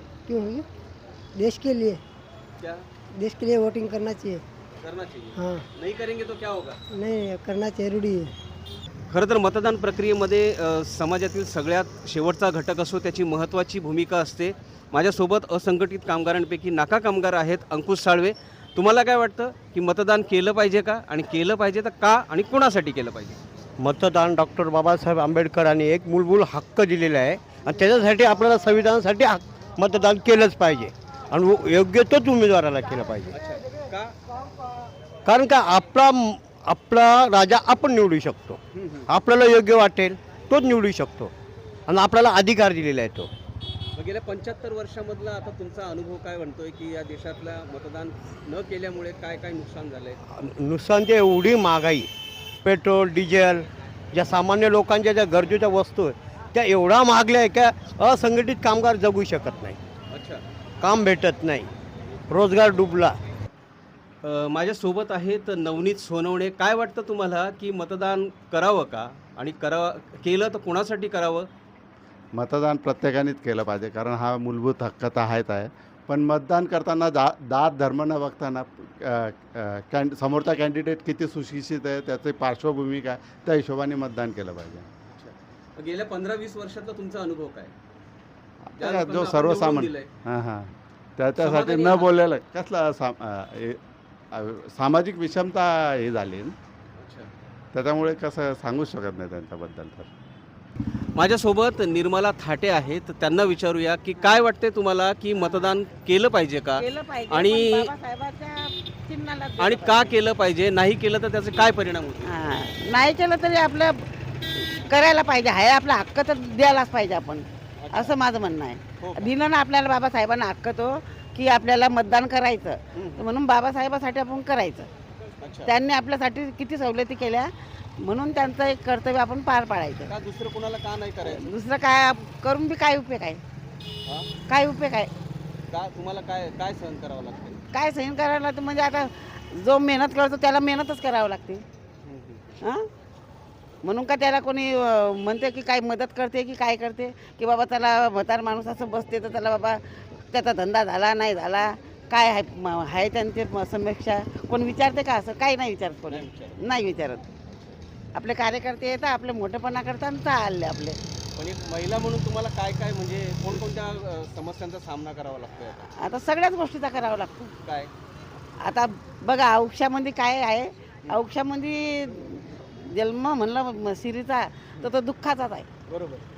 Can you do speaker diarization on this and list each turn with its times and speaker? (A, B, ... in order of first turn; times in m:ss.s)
0:00.3-0:00.7 A
0:01.4-0:02.0 A
0:03.2-0:04.4 A
0:04.8-0:06.8 B
0:05.4-0:05.7 A
0:06.9-0:08.4 A
0:09.1-0:23.4 B
0:23.8-0:33.4 C
0:33.3-0:34.1 B
0:35.2-0:41.3 C
0:38.8-0:39.1 B
0:41.9-0:43.3 C
0:43.9-0:50.2 B
0:50.3-0:52.1 C
0:52.6-0:59.8 C
1:00.1-1:00.4 B
1:00.8-1:01.7 C
1:02.3-1:03.2 C
1:04.2-1:11.5 B
1:12.3-1:24.9 D
1:25.1-1:27.7 B
1:28.8-1:33.8 D
1:28.8-1:30.1 B
1:31.4-1:32.1 B
1:34.3-1:36.6 D
1:37.0-1:37.3 B
1:37.7-1:40.1 D
1:41.2-1:47.9 B
1:46.8-1:50.2 E
1:49.6-1:52.4 B
1:52.2-2:04.9 E
1:57.8-1:58.2 B
1:59.0-1:59.3 B
2:02.9-2:03.2 B
2:05.4-2:05.7 B
2:05.6-2:10.1 E
2:10.1-2:11.5 B
2:11.2-2:13.4 E
2:14.5-2:15.1 E
2:15.7-2:17.6 B
2:17.7-2:21.6 E
2:22.0-2:22.6 B
2:23.8-2:37.2 E
2:36.1-2:36.6 B
2:38.2-2:41.0 E
2:41.4-2:45.9 B
2:46.0-2:47.5 E
2:47.6-2:47.9 B
2:48.6-2:55.7 E
2:55.9-2:56.2 B